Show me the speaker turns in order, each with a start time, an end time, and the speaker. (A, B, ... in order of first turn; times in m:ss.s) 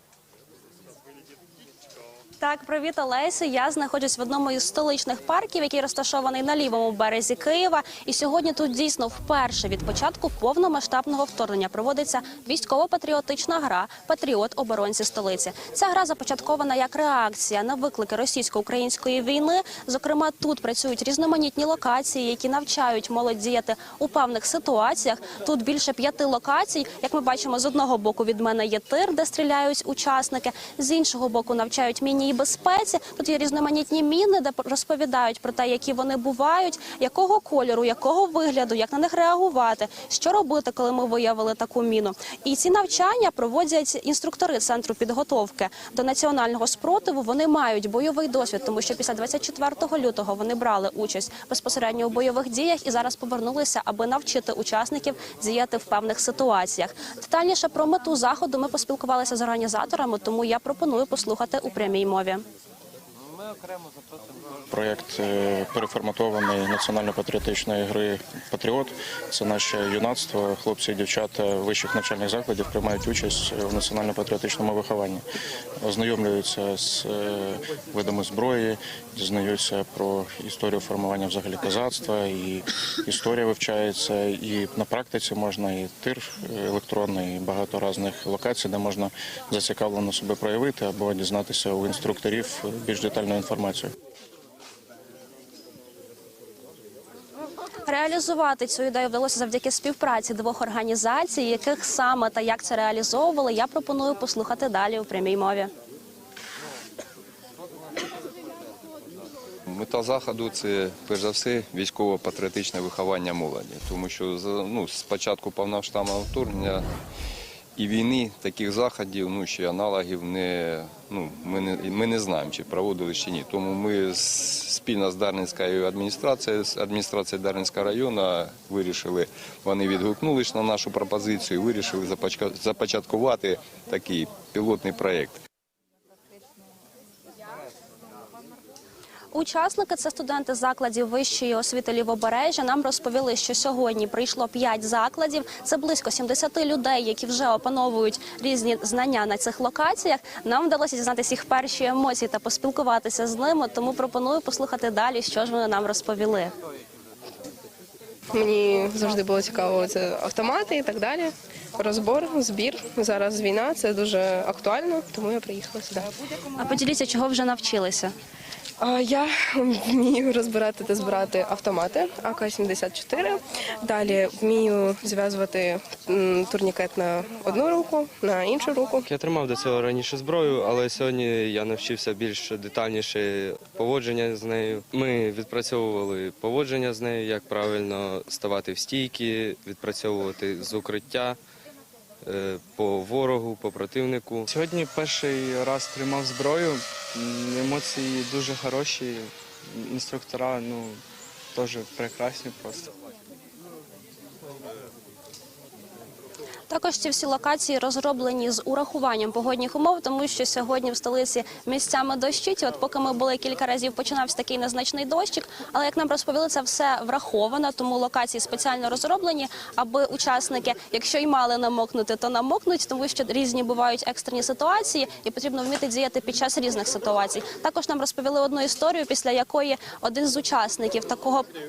0:02.4-1:02.4 A
1:04.7-1:15.2 B
1:15.8-1:33.9 B
1:37.9-1:45.7 A
1:49.7-1:56.9 C
1:57.8-2:15.4 C
2:19.3-2:36.5 A
2:38.3-2:46.1 D
2:46.6-2:48.1 A
2:48.8-2:59.0 D
2:59.0-3:11.4 E
3:12.2-3:14.5 E
3:14.5-3:21.0 F
3:21.5-3:22.9 F
3:26.7-3:51.5 A